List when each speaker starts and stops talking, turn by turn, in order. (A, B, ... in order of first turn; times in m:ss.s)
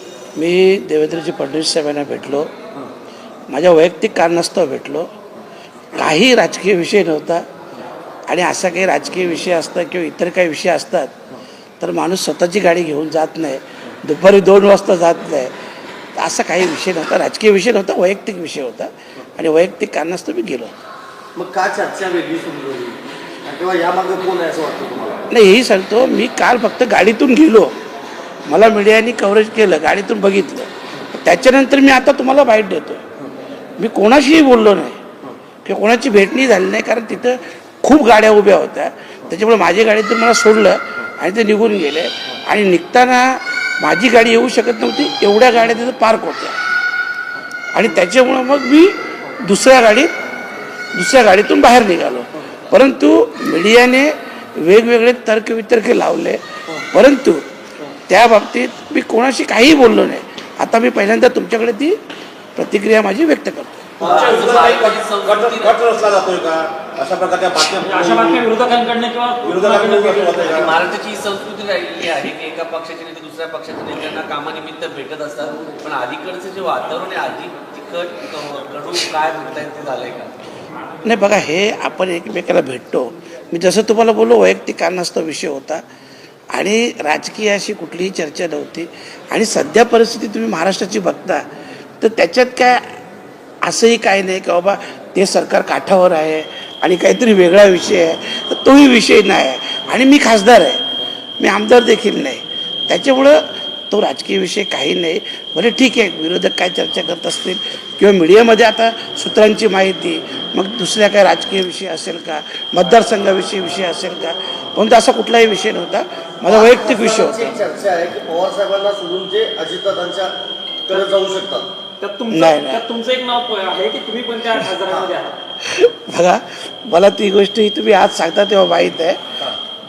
0:00.4-0:02.5 A
0:03.5-0:05.1 A
0:06.0-0:07.4 A
0:08.3-0:11.2 A
0:11.8-0:15.5 A
0:16.2-0:20.7 A
0:21.4-0:25.2 B
0:25.3-0:27.7 A
0:28.5-0:30.7 A
0:31.2-0:33.0 A
0:33.8-0:35.0 A
0:35.6-0:46.6 A
0:47.7-0:50.1 A
0:51.0-0:57.4 A
0:58.1-1:02.0 A
1:02.6-1:04.0 A
1:04.0-1:05.0 C
1:04.0-1:05.8 D
1:05.3-1:06.6 E
1:07.0-1:10.8 C
1:07.9-1:08.3 E
1:09.6-1:10.4 E
1:10.4-1:20.4 D
1:21.0-1:25.8 A
1:26.5-1:31.4 A
1:32.0-1:33.0 A
1:33.6-1:40.8 A
1:41.4-1:57.5 A
1:56.5-2:00.3 B
2:00.9-2:01.7 B
2:02.0-2:05.4 C
2:02.3-2:02.8 A
2:05.6-2:09.2 A